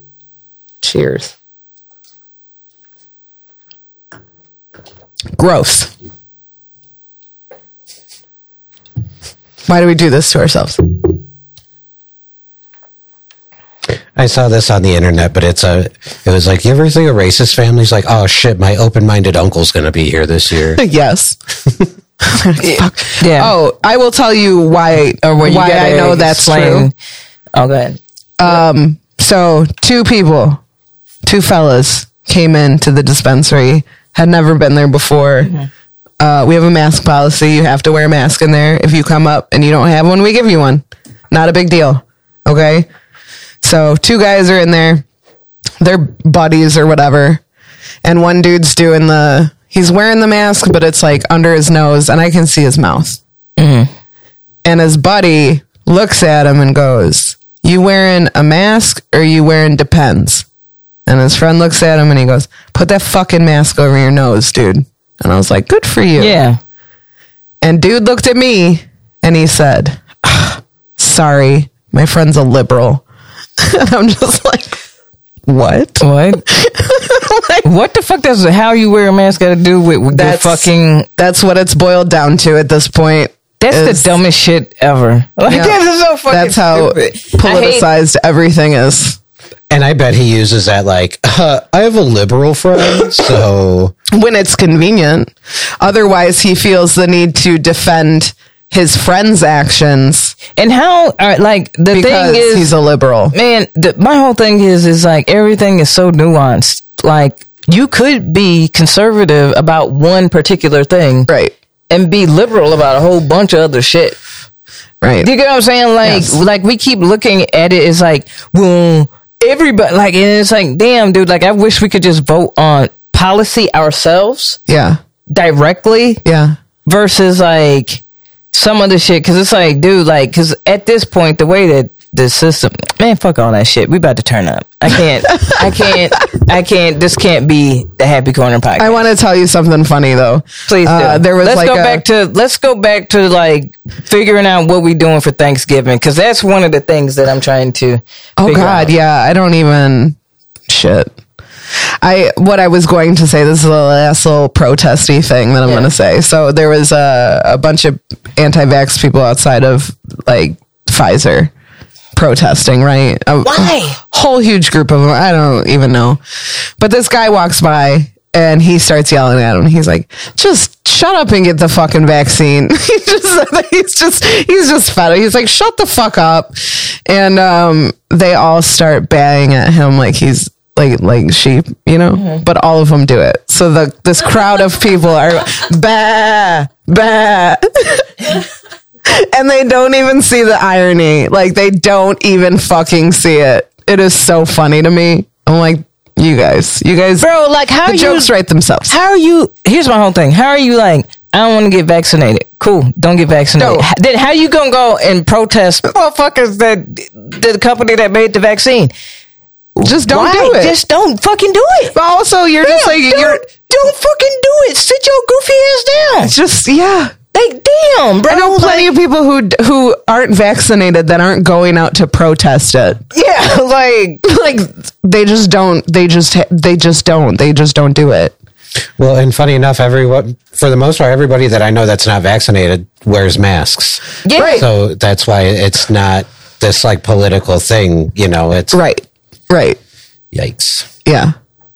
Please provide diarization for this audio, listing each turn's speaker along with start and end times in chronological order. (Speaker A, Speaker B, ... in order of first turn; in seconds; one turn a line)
Speaker A: 0.8-1.3
Speaker A: 5.4-5.9
Speaker A: 9.7-10.8
Speaker B: 14.1-20.8
Speaker A: 20.8-21.4
Speaker A: 22.2-26.9
Speaker C: 22.6-23.5
Speaker C: 25.2-26.9
Speaker C: 27.5-28.5
Speaker A: 28.4-30.6
Speaker A: 31.2-35.5
Speaker A: 36.2-42.9
Speaker A: 43.6-45.0
Speaker A: 45.8-47.4
Speaker A: 48.0-53.2
Speaker C: 53.6-53.9
Speaker A: 54.6-60.4
Speaker A: 61.0-66.4
Speaker C: 66.2-66.6
Speaker A: 67.6-73.0
Speaker A: 73.6-74.8
Speaker A: 75.5-77.7
Speaker C: 76.0-76.4
Speaker C: 77.6-81.1
Speaker A: 80.1-84.1
Speaker C: 83.6-87.9
Speaker A: 85.5-89.2
Speaker B: 89.7-93.9
Speaker A: 94.1-100.3
Speaker C: 100.5-102.7
Speaker A: 101.9-103.3
Speaker C: 103.3-111.3
Speaker A: 111.3-111.5
Speaker C: 111.9-114.2
Speaker A: 115.0-115.3
Speaker C: 115.2-124.6
Speaker A: 116.0-116.4
Speaker A: 124.7-125.0
Speaker C: 125.3-126.2
Speaker A: 126.2-126.5
Speaker C: 126.8-128.0
Speaker C: 128.5-139.0
Speaker A: 135.3-135.9
Speaker A: 138.8-142.0
Speaker C: 140.7-148.9
Speaker A: 148.4-150.2
Speaker A: 150.7-151.1
Speaker A: 152.0-161.5
Speaker C: 155.6-155.9
Speaker A: 162.1-166.2
Speaker C: 163.4-164.0
Speaker A: 166.8-188.3
Speaker A: 189.1-197.2
Speaker C: 197.2-198.3
Speaker A: 197.8-198.9
Speaker C: 198.9-208.9
Speaker A: 203.6-203.8
Speaker A: 209.8-210.8
Speaker C: 210.1-211.9
Speaker A: 211.9-213.5
Speaker C: 212.6-216.3
Speaker A: 216.2-217.1
Speaker C: 217.3-218.9
Speaker A: 218.3-223.0
Speaker C: 223.1-224.2
Speaker A: 224.2-228.3
Speaker B: 229.0-238.8
Speaker C: 234.2-234.6
Speaker A: 234.3-234.6
Speaker A: 238.7-239.8
Speaker B: 240.3-240.9
Speaker A: 241.0-241.3